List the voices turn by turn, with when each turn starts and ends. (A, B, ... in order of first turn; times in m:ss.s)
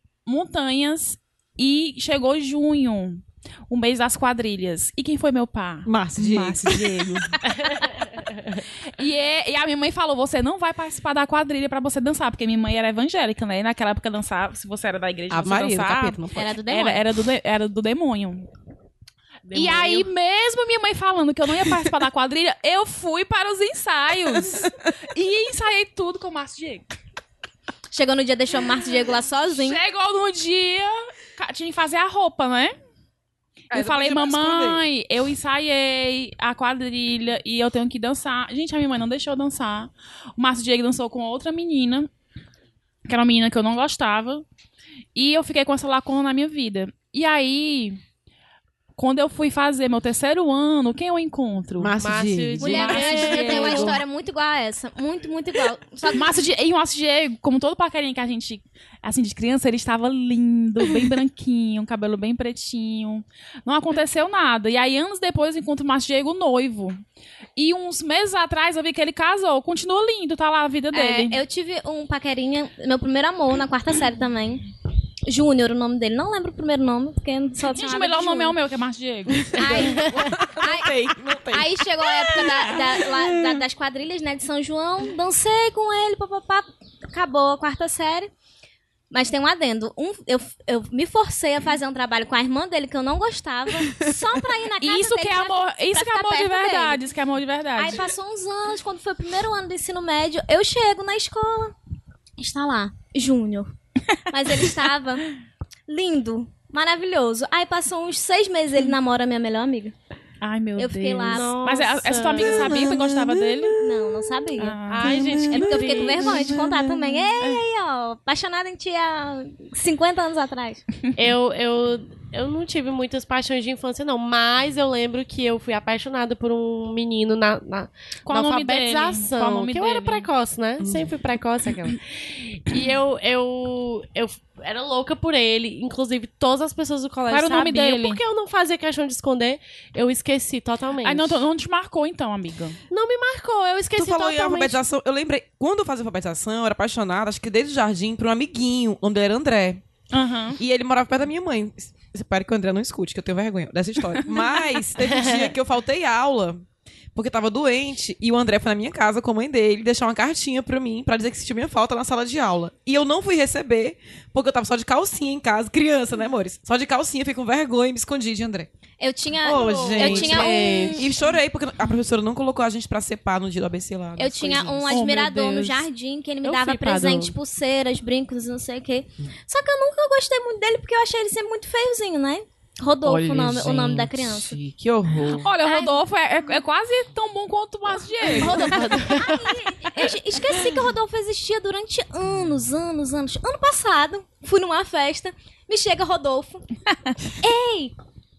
0:00.3-0:07.9 A
0:05.9-0:07.3 B
0:08.9-0:18.5 A
0:15.3-0:16.5 B
0:16.4-0:17.0 C
0:19.5-0:26.9 A
0:19.6-0:20.0 C
0:27.9-0:29.8 C
0:29.6-0:32.7 A
0:33.7-0:34.8 B
0:33.7-0:42.1 A
0:43.1-0:44.4 A
0:45.2-0:48.0 A
0:49.0-0:52.0 A
0:51.8-0:54.0 B
0:52.0-0:54.0 D
0:52.6-0:56.4 C
0:52.7-0:54.0 A
0:56.1-1:07.0 A
1:07.6-1:11.4 A
1:10.9-1:14.6 C
1:15.3-1:18.6 C
1:17.7-1:19.5 A
1:19.3-1:23.6 B
1:19.6-1:28.3 C
1:19.7-1:20.2 D
1:29.1-1:37.0 C
1:34.8-1:38.1 A
1:37.8-1:41.8 C
1:42.4-1:43.7 C
1:44.3-1:45.3 C
1:45.9-1:50.0 C
1:50.4-1:53.8 A
1:50.8-1:51.5 C
1:51.3-1:52.9 D
1:52.4-1:54.4 B
1:53.8-1:54.8 C
1:54.6-1:55.2 A
1:54.9-1:56.6 D
1:55.0-1:57.3 B
1:55.5-2:00.8 C
2:01.2-2:21.4 D
2:08.3-2:10.3 A
2:10.8-2:11.1 B
2:17.3-2:18.2 A
2:21.0-2:22.8 A
2:22.9-2:24.8 D
2:24.0-2:29.8 B
2:30.1-2:30.6 A
2:30.6-2:48.7 B
2:35.0-2:35.5 D
2:49.0-2:51.1 C
2:49.4-2:54.9 B
2:49.9-2:50.5 A
2:49.9-2:51.0 D
2:54.2-3:04.6 C
2:54.9-2:55.8 A
2:56.4-2:57.3 D
3:03.0-3:05.5 B
3:05.3-3:09.0 A
3:05.6-3:06.0 C
3:08.4-3:16.6 C
3:08.4-3:09.5 D
3:17.4-3:18.0 C